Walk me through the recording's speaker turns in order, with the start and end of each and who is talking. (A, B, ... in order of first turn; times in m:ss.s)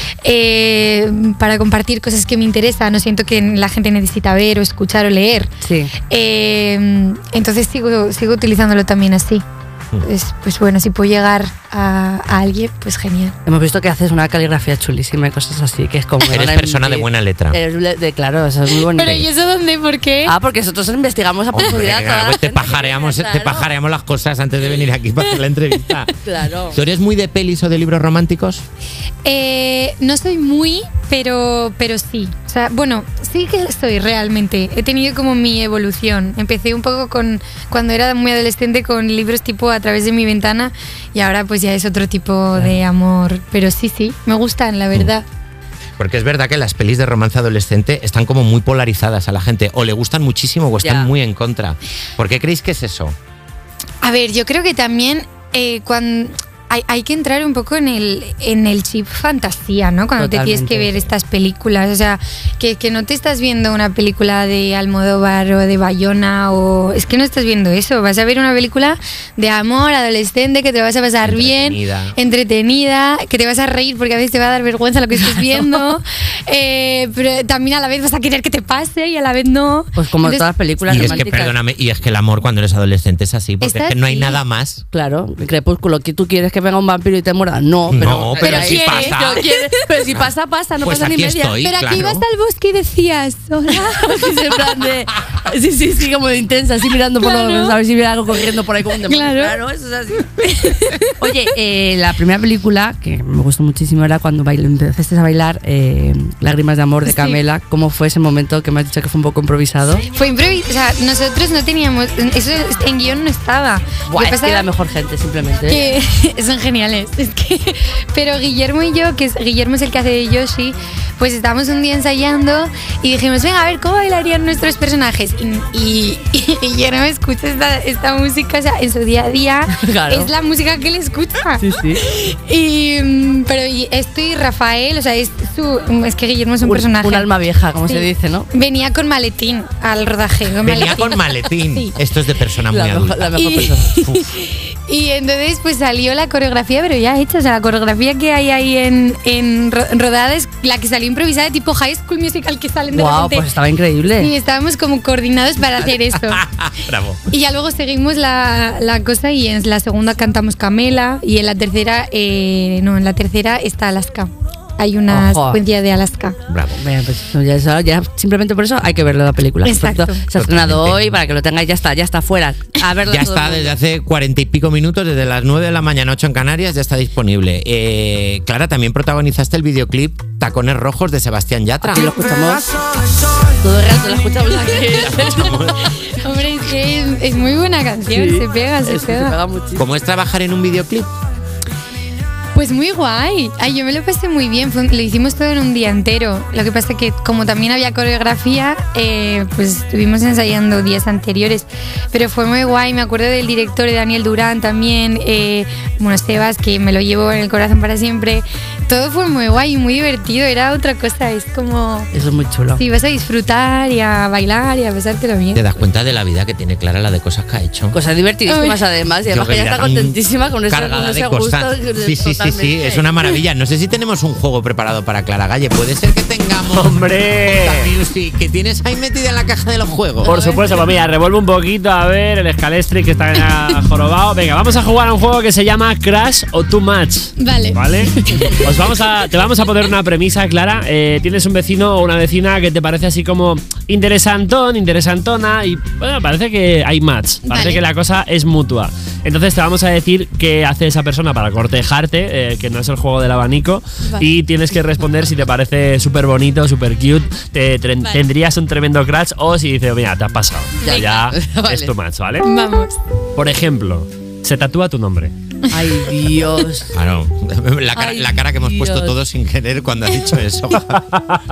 0:00.2-0:05.5 A
0:05.6-0:05.9 B
0:06.1-0:09.4 A
0:10.0-0:13.4 A
0:13.5-0:19.3 B
0:16.2-0:17.6 C
0:18.8-0:20.3 A
0:20.3-0:23.7 B
0:21.5-0:26.1 C
0:26.2-0:26.8 B
0:26.7-0:28.6 C
0:29.2-0:45.2 A
0:46.0-0:53.2 C
0:50.8-0:51.1 B
0:54.0-1:21.3 A
1:00.2-1:01.0 B
1:11.2-1:12.2 C
1:20.0-1:21.6 B
1:20.9-1:24.8 C
1:23.6-1:24.4 A
1:24.9-1:31.6 B
1:27.9-1:29.4 C
1:28.3-1:29.7 A
1:30.8-1:32.2 C
1:31.6-1:34.3 A
1:34.0-1:50.1 B
1:37.2-1:37.8 A
1:39.1-1:39.6 A
1:40.4-1:41.1 A
1:47.0-1:47.4 A
1:50.1-1:54.7 A
1:54.1-1:55.8 B
1:55.7-2:17.3 A
2:09.8-2:10.3 B
2:11.6-2:12.0 B
2:16.6-2:18.5 B
2:17.8-2:21.9 A
2:20.6-2:23.3 C
2:22.7-2:24.0 B
2:23.4-2:33.5 A
2:32.9-2:34.3 B
2:34.2-2:36.4 A
2:36.3-2:37.2 C
2:37.3-2:46.4 A
2:45.1-2:45.6 B
2:46.5-2:46.8 C
2:46.7-2:53.8 B
2:49.6-2:50.2 A
2:50.4-2:51.0 C
2:53.1-3:02.1 C
3:01.8-3:02.7 B
3:03.6-3:05.5 B
3:05.0-3:05.9 C
3:05.1-3:09.4 A
3:08.1-3:09.9 B
3:09.8-3:11.1 C
3:12.5-3:32.1 A
3:32.1-3:32.8 B
3:32.8-3:35.8 A
3:35.6-3:38.0 C
3:37.9-3:43.1 B
3:38.5-3:38.8 A
3:39.3-3:50.4 C
3:46.7-3:47.9 D
3:50.2-3:50.7 B
3:50.3-4:22.5 D
3:57.4-3:58.6 A
4:07.5-4:07.8 A
4:14.0-4:14.3 A
4:20.8-4:21.1 A
4:21.3-4:21.9 B
4:22.4-4:23.0 A
4:23.4-4:25.3 D
4:25.7-4:26.9 B
4:26.9-4:31.0 C
4:28.0-4:29.2 B
4:30.9-4:31.2 D